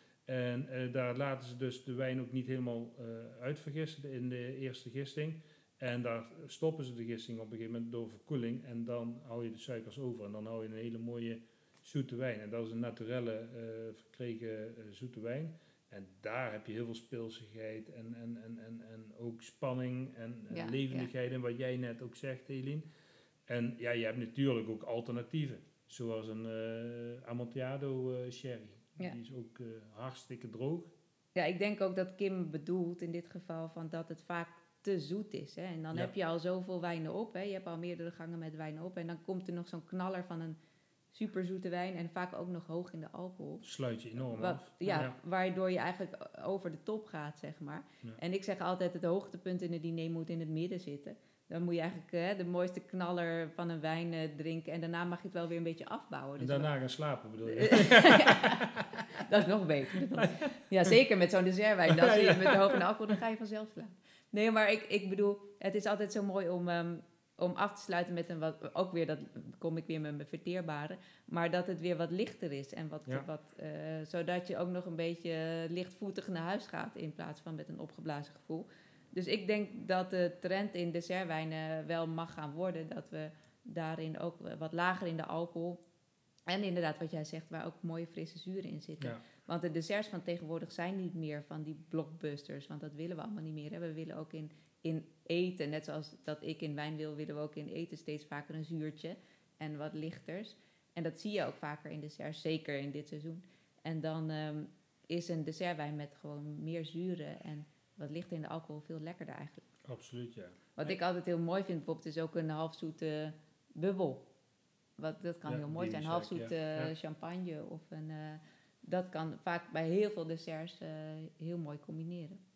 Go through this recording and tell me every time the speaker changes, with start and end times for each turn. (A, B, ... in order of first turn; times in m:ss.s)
0:00.3-0:22.8 A
0:20.5-0:21.1 B
0:23.5-0:30.9 A
0:31.4-0:40.6 B
0:41.1-0:43.7 B
0:43.6-0:45.2 A
0:44.3-0:56.7 B
0:56.4-0:59.0 A
0:57.5-1:25.8 B
1:00.2-1:00.6 A
1:02.0-1:02.8 A
1:26.5-1:49.7 B
1:49.9-1:50.6 A
1:50.8-1:54.3 B
1:55.0-2:02.4 B
1:55.4-1:56.9 A